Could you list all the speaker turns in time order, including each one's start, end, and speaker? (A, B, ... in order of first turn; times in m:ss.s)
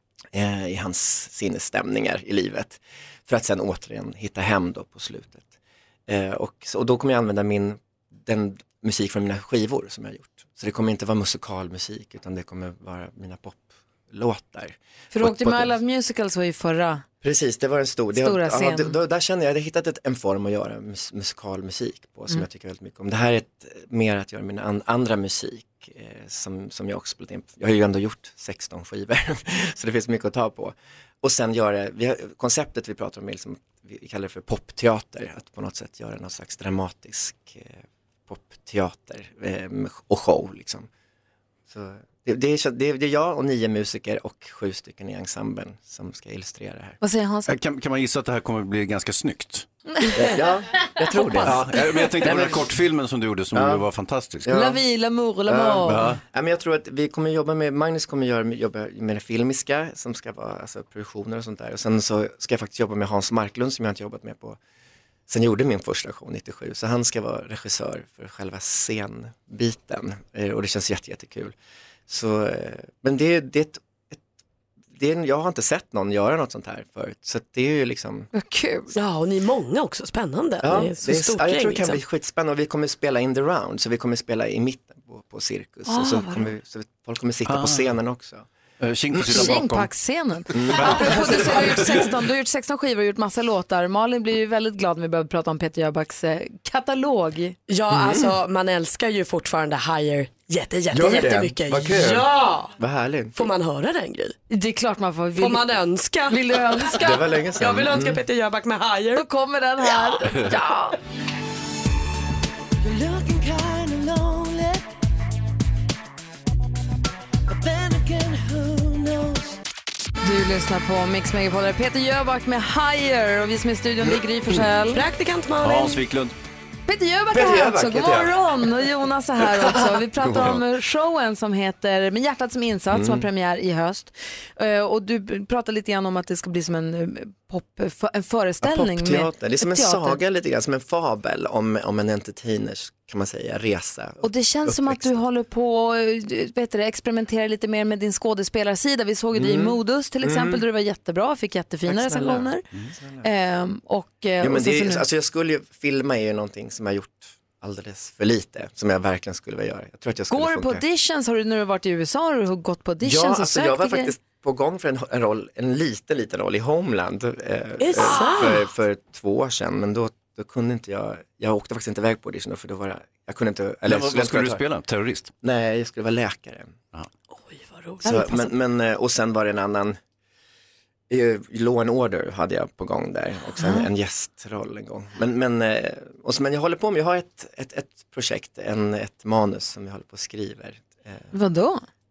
0:00.3-0:05.5 A
0:06.1-0:15.8 A
0:15.1-0:17.0 B
0:17.2-0:40.9 A
0:18.1-0:19.0 B
0:41.7-0:47.0 A
0:47.0-0:47.6 B
0:47.5-0:49.7 C
0:50.2-0:52.7 A
0:51.3-0:51.6 B
0:51.4-0:54.5 C
0:53.5-0:53.8 A
0:54.4-0:54.8 A
0:54.5-0:56.2 B
0:55.4-1:04.6 A
0:55.9-0:56.2 C
1:05.3-1:11.5 A
1:12.1-1:14.2 A
1:14.9-1:18.3 A
1:18.3-1:18.9 B
1:18.9-1:22.0 D
1:20.6-1:28.5 A
1:25.9-1:26.5 B
1:27.5-1:27.9 C
1:28.8-1:29.9 C
1:29.1-1:29.6 A
1:29.2-1:37.6 B
1:30.5-1:31.4 A
1:30.8-1:32.0 C
1:37.7-1:42.7 D
1:37.9-1:38.3 A
1:40.9-1:42.2 A
1:42.8-1:43.4 A
1:43.4-1:44.4 D
1:44.5-1:45.6 B
1:45.4-1:49.2 D
1:46.3-1:47.2 B
1:47.0-1:48.2 A
1:49.1-1:51.0 B
1:52.8-1:54.8 E
1:57.5-1:59.6 E
2:00.2-2:05.0 B
2:04.9-2:06.0 D
2:05.6-2:06.3 C
2:06.9-2:20.2 B
2:07.3-2:08.4 A
2:12.9-2:13.2 A
2:18.6-2:25.2 A
2:24.2-2:32.6 B
2:29.3-2:30.6 A
2:31.8-2:33.2 A
2:33.2-2:35.0 B
2:34.4-2:40.8 A
2:40.3-2:44.1 B
2:43.0-2:54.6 A
2:47.8-2:48.7 D
2:53.9-2:55.3 C
2:55.4-2:56.8 A
2:57.5-2:58.3 D
2:58.0-3:00.0 A
2:58.0-2:58.4 B
3:01.1-3:11.3 A
3:03.6-3:03.9 B
3:11.3-3:11.8 B